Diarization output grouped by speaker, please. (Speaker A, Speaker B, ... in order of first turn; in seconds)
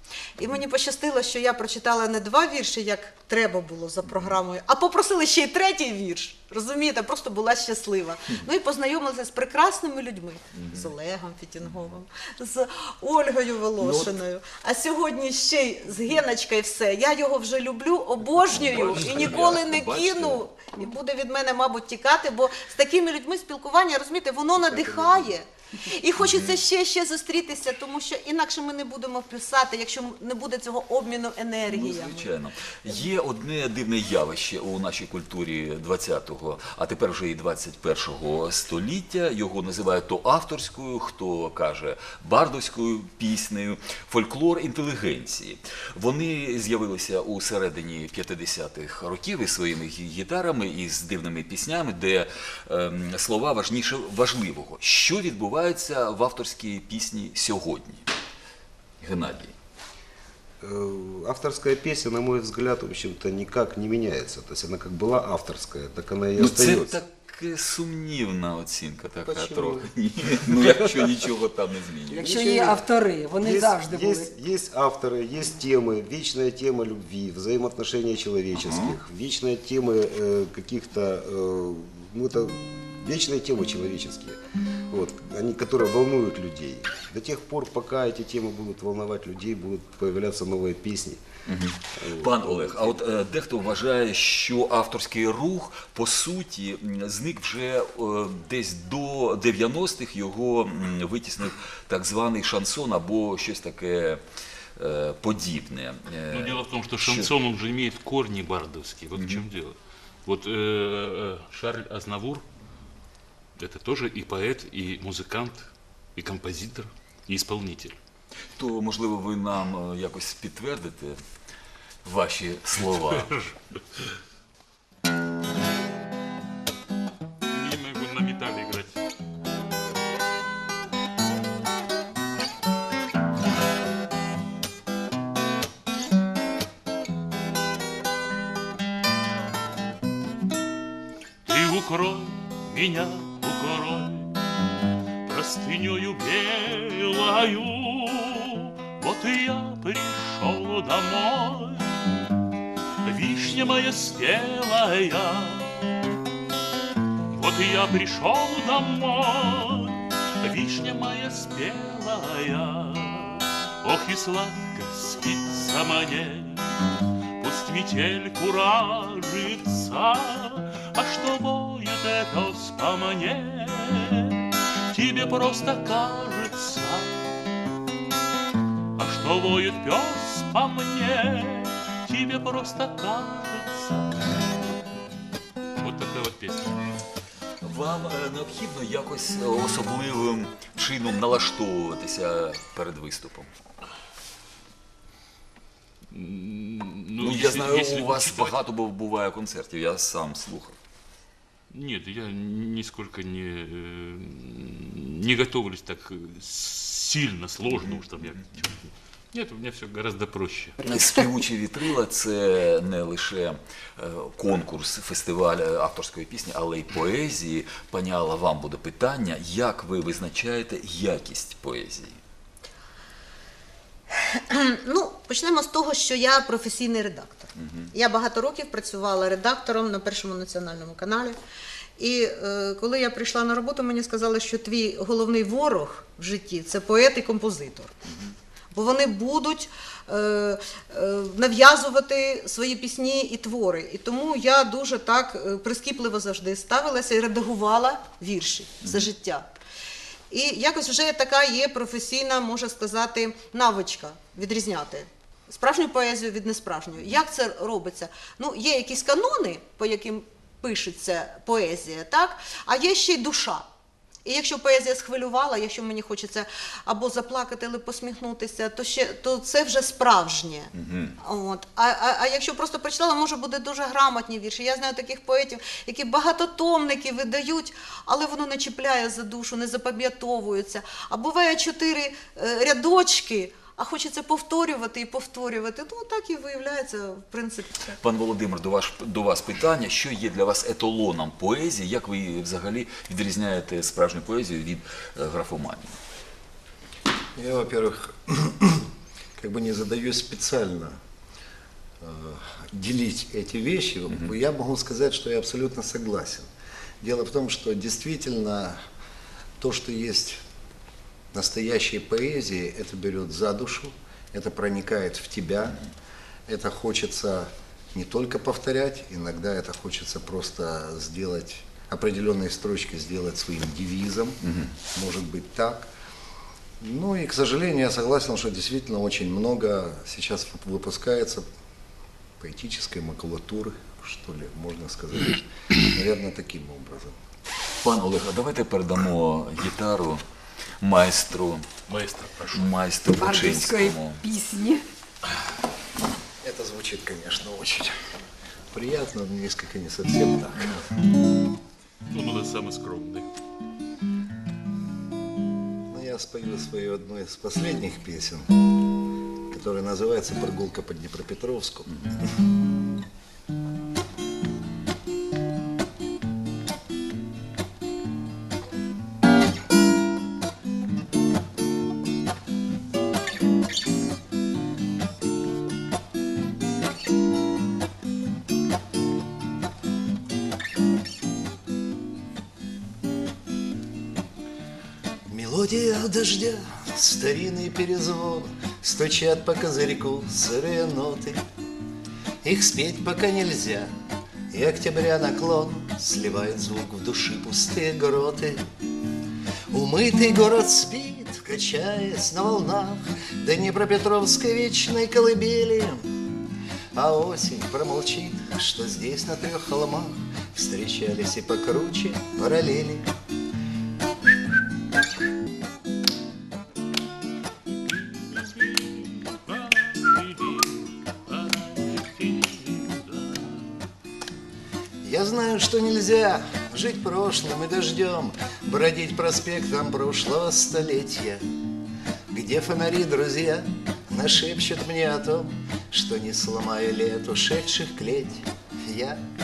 Speaker A: 0.4-32.3, 224.2-231.4, 232.0-238.0, 238.7-249.5, 250.3-263.7, 264.2-288.0
Speaker B: 4.1-4.4, 10.6-10.9, 13.8-14.1, 18.4-20.4, 26.2-26.6, 31.7-58.1, 59.0-59.5, 66.4-72.4, 78.7-79.0, 91.5-104.2, 104.8-107.3, 109.2-109.5, 118.5-121.2, 122.0-123.4, 187.6-193.6, 197.2-200.8, 207.7-208.0, 210.8-222.2, 227.6-227.9, 270.8-271.1, 287.9-296.0, 324.4-324.7, 337.8-340.2, 340.8-341.7, 342.5-344.2
Speaker C: 60.6-67.0, 69.2-71.3, 72.4-72.8, 73.4-91.3, 92.0-93.0
Speaker D: 72.1-74.3, 343.2-344.8
Speaker E: 106.3-112.5, 113.6-118.0, 122.8-123.5, 127.5-129.0, 141.4-144.3, 145.2-152.0, 153.0-155.8, 157.3-166.7, 167.4-177.3, 179.0-184.2, 185.8-186.8, 196.1-198.6, 201.7-210.8, 341.9-342.8, 352.1-353.3, 417.9-423.7
Speaker F: 297.4-301.0, 302.0-306.5, 307.0-308.8, 309.6-310.4, 311.3-315.8, 316.5-325.9, 326.8-331.5, 332.4-337.2, 346.4-348.0, 348.7-350.9, 355.9-358.5, 359.5-362.2, 385.3-391.4, 392.4-393.9, 394.5-398.7, 399.7-406.2, 406.9-413.1, 425.0-431.4, 432.3-439.2